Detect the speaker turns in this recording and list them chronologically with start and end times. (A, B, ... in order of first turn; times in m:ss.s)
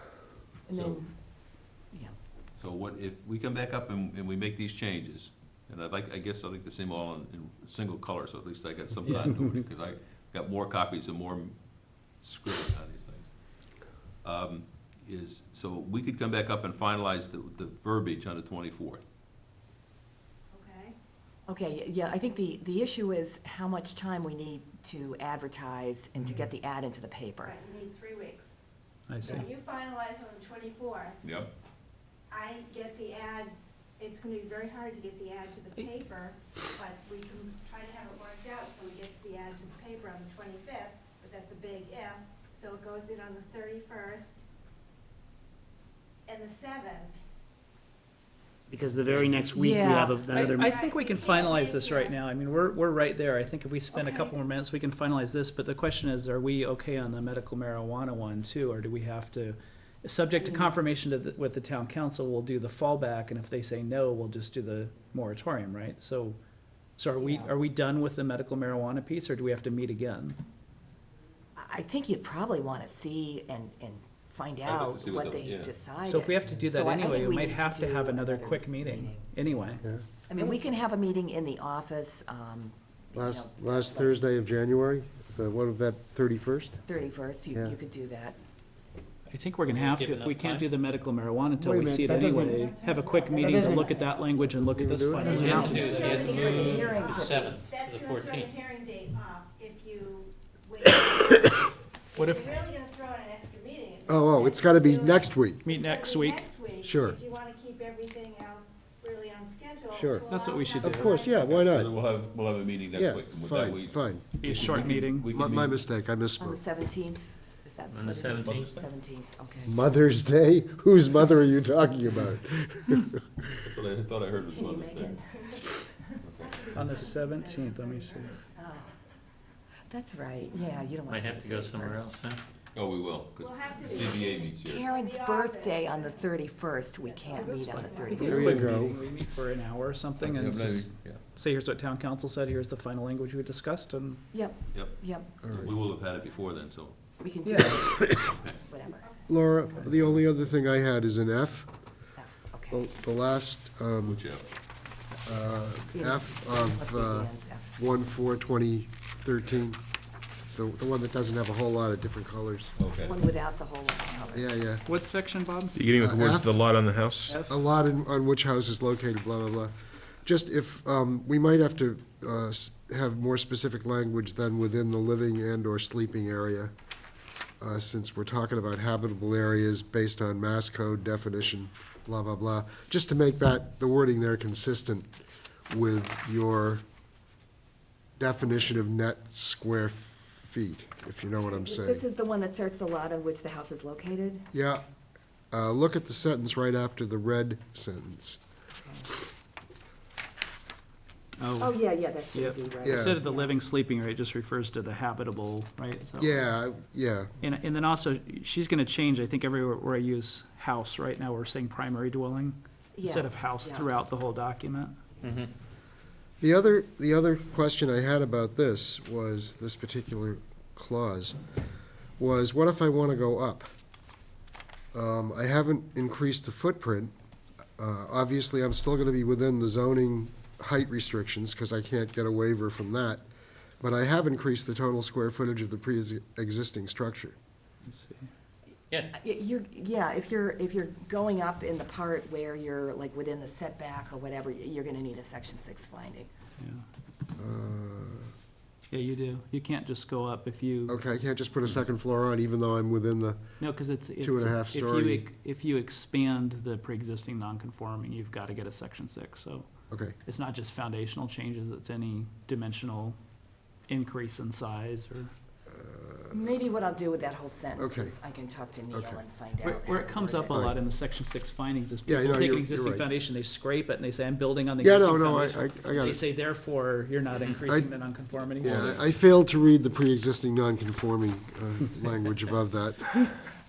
0:00.7-0:01.1 A
0:00.7-0:01.0 B
0:02.6-0:11.6 B
0:09.0-0:09.6 C
0:12.2-0:13.3 B
0:14.2-0:19.0 B
0:20.5-0:21.0 D
0:21.5-0:27.6 A
0:27.4-0:28.6 D
0:29.1-0:29.5 C
0:29.2-0:31.2 D
0:31.2-0:31.5 B
0:32.3-0:44.4 D
0:46.3-0:47.2 D
0:48.7-0:50.6 E
0:49.1-0:49.8 F
0:49.5-0:50.2 A
0:50.3-1:06.4 C
0:50.5-0:52.2 D
0:53.9-0:54.3 A
1:00.4-1:00.7 A
1:07.0-1:10.4 C
1:07.2-1:07.5 A
1:11.6-1:19.8 A
1:14.6-1:15.7 B
1:16.0-1:19.8 C
1:20.3-1:24.2 A
1:23.2-1:26.8 G
1:26.8-1:28.4 A
1:29.3-1:36.2 C
1:29.7-1:30.7 H
1:32.0-1:34.2 D
1:33.5-1:33.7 E
1:34.8-1:35.6 G
1:35.1-1:51.4 D
1:35.3-1:37.6 A
1:35.4-1:38.5 H
1:42.2-1:42.7 C
1:44.1-1:45.6 G
1:45.6-1:46.4 C
1:46.8-1:47.2 G
1:49.9-1:51.9 G
1:50.3-1:51.2 C
1:51.4-1:55.8 B
1:53.0-1:56.6 G
1:54.4-1:55.3 C
1:56.4-1:59.8 A
1:57.9-1:58.6 H
1:58.3-1:58.9 B
1:59.7-2:03.4 G
2:03.6-2:05.2 B
2:04.5-2:05.2 A
2:05.1-2:08.6 D
2:06.2-2:06.8 B
2:06.7-2:08.4 C
2:08.6-2:08.9 A
2:09.9-2:12.1 A
2:10.5-2:10.9 D
2:11.1-2:12.4 H
2:12.8-2:14.9 B
2:13.4-2:18.8 D
2:14.6-2:18.8 A
2:17.4-2:24.2 C
2:18.2-2:19.0 G
2:20.2-2:21.2 B
2:24.3-2:25.4 A
2:25.4-2:25.7 G
2:25.5-2:27.0 B
2:27.2-2:29.2 A
2:27.5-2:27.8 C
2:27.9-2:28.3 G
2:29.3-2:31.7 G
2:32.2-2:32.8 A
2:32.7-2:34.2 G
2:34.0-2:34.5 B
2:35.2-2:39.8 G
2:35.9-2:37.7 A
2:40.5-2:42.8 G
2:42.8-2:43.2 B
2:43.0-2:44.6 A
2:44.3-2:44.8 G
2:44.8-2:45.8 C
2:45.7-2:47.4 F
2:46.0-2:46.6 G
2:47.3-2:47.6 C
2:47.4-2:49.7 G
2:50.2-2:56.7 G
2:57.6-3:05.1 G
3:05.7-3:06.8 G
3:08.2-3:12.1 G
3:11.4-3:14.5 A
3:14.5-3:14.8 G
3:15.5-3:18.4 G
3:21.4-3:21.8 C
3:21.6-3:23.5 A
3:22.3-3:26.4 C
3:22.8-3:23.2 G
3:26.2-3:27.3 G
3:27.4-3:35.0 C
3:33.0-3:33.9 A
3:36.4-3:41.4 G
3:42.2-3:43.7 G
3:44.9-3:47.1 G
3:47.8-3:53.2 G
3:53.8-3:57.4 G
3:57.9-3:58.3 C
3:59.1-4:06.3 A
4:07.4-4:08.3 G
4:08.9-4:11.0 C
4:10.9-4:13.4 G
4:13.6-4:19.7 C
4:14.2-4:15.3 G
4:20.2-4:23.2 C
4:23.9-4:25.3 C
4:25.7-4:26.4 G
4:26.3-4:30.6 A
4:27.8-4:28.1 G
4:28.9-4:29.2 G
4:29.6-4:39.0 C
4:30.5-4:30.8 G
4:32.1-4:33.1 G
4:34.8-4:36.2 G
4:38.6-4:43.3 G